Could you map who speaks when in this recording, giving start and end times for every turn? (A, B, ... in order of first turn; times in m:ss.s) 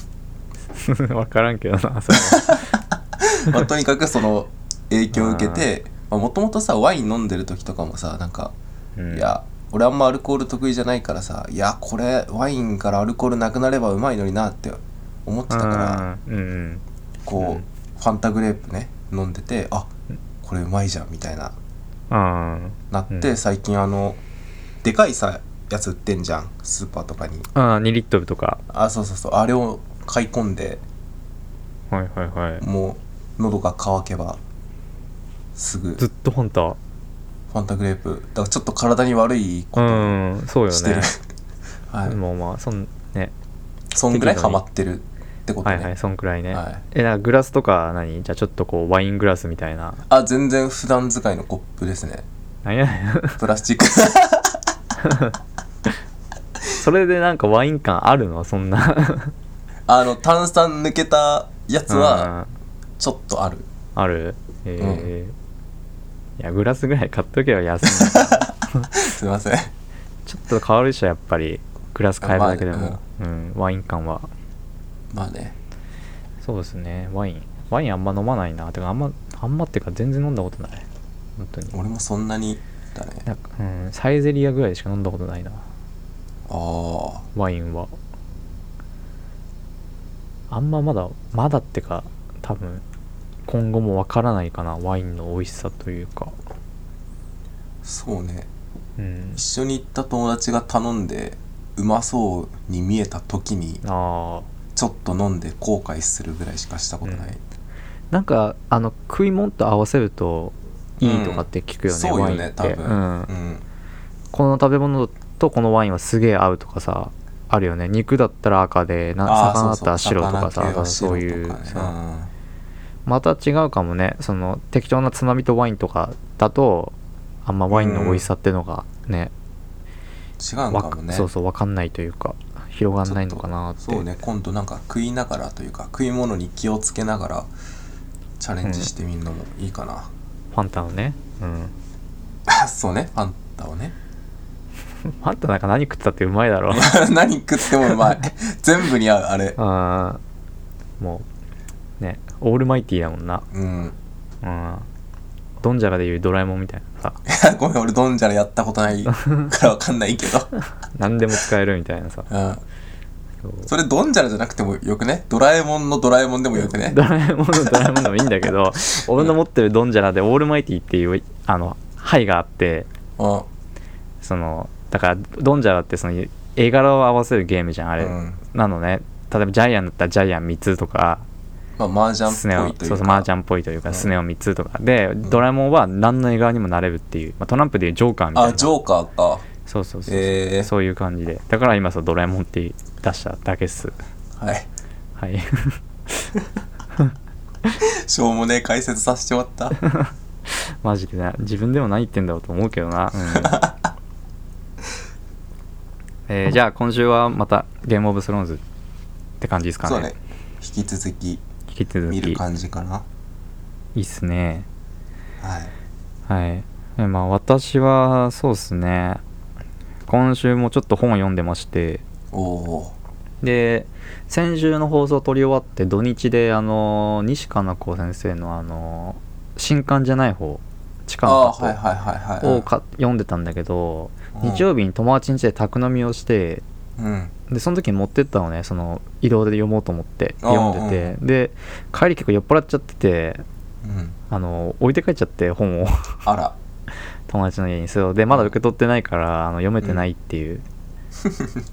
0:00.8-0:02.6 A
0:02.1-0:08.5 B
0:05.1-0:05.7 A
0:09.0-0:09.3 A
0:09.1-0:16.1 B
0:15.5-0:16.8 A
0:17.2-0:19.9 B
0:17.4-0:17.6 A
0:20.4-0:21.5 B
0:22.1-0:23.3 A
0:22.9-0:24.2 B
0:24.8-0:27.5 B
0:27.5-0:28.6 A
0:28.7-0:30.8 B
0:31.9-0:32.6 A
0:32.6-0:34.4 B
0:35.6-0:36.0 B
0:36.0-0:36.8 A
0:37.5-0:40.2 B
0:39.8-0:41.1 A
0:40.7-0:41.2 B
0:41.9-0:42.2 B
0:42.0-0:43.3 A
0:43.9-0:45.9 B
0:44.1-0:44.6 A
0:45.6-0:50.0 A
0:46.5-0:46.8 B
0:50.1-0:52.2 B
0:52.6-0:53.4 A
0:53.4-0:54.6 B
0:55.0-0:55.3 A
0:56.8-0:59.3 A
0:59.9-1:02.3 B
1:01.9-1:02.5 A
1:03.0-1:03.7 B
1:04.0-1:05.3 A
1:04.8-1:05.1 B
1:06.4-1:08.9 A
1:07.8-1:09.7 B
1:10.2-1:14.3 A
1:12.2-1:13.0 B
1:15.1-1:15.6 B
1:16.4-1:20.8 A
1:21.4-1:21.8 A
1:21.7-1:23.2 B
1:23.2-1:25.6 A
1:26.5-1:27.2 B
1:27.3-1:27.9 A
1:30.5-1:32.8 A
1:33.5-1:36.3 A
1:37.8-1:38.5 B
1:39.0-1:39.4 A
1:39.4-1:43.8 B
1:43.8-1:44.5 A
1:44.8-1:47.4 B
1:47.0-1:47.3 A
1:48.1-1:53.3 A
1:51.0-1:53.6 B
1:54.3-2:01.9 A
1:59.2-2:02.3 B
2:03.0-2:09.3 A
2:07.7-2:08.2 B
2:10.4-2:11.3 B
2:10.7-2:14.1 A
2:13.0-2:17.5 B
2:18.4-2:20.1 B
2:18.6-2:18.9 A
2:20.5-2:21.7 A
2:22.5-2:23.9 B
2:25.2-2:26.9 A
2:26.7-2:29.6 B
2:29.6-2:30.2 A
2:31.0-2:31.2 A
2:32.0-2:33.4 A
2:33.5-2:34.0 B
2:34.4-2:34.9 A
2:35.6-2:37.2 A
2:37.2-2:40.5 B
2:39.1-2:39.5 A
2:40.9-2:42.3 A
2:42.3-2:42.6 B
2:43.4-2:43.7 A
2:43.7-2:47.0 B
2:46.5-2:52.9 A
2:47.6-2:49.3 B
2:53.2-2:53.5 B
2:54.2-3:01.2 A
2:58.0-2:58.4 B
3:01.8-3:03.3 B
3:02.2-3:08.7 A
3:08.3-3:09.4 B
3:09.6-3:13.9 A
3:10.1-3:10.7 B
3:14.4-3:14.7 B
3:15.2-3:16.3 A
3:17.8-3:19.8 B
3:19.8-3:23.6 A
3:23.3-3:23.8 B
3:26.3-3:28.6 A
3:29.4-3:30.1 A
3:29.8-3:31.4 B
3:31.7-3:32.4 A
3:32.1-3:33.0 B
3:33.9-3:34.7 A
3:35.4-3:35.7 B
3:36.3-3:39.2 A
3:40.1-3:42.0 A
3:42.3-3:42.9 B
3:43.4-3:51.8 A
3:51.2-3:52.6 B
3:52.4-3:56.6 A
3:54.3-3:54.6 B
3:57.0-3:57.3 B
3:57.5-4:03.4 A
4:00.4-4:01.2 B
4:03.8-4:04.2 B
4:04.3-4:06.2 A
4:06.2-4:06.6 B
4:07.3-4:10.6 A
4:08.3-4:08.6 B
4:11.2-4:11.6 B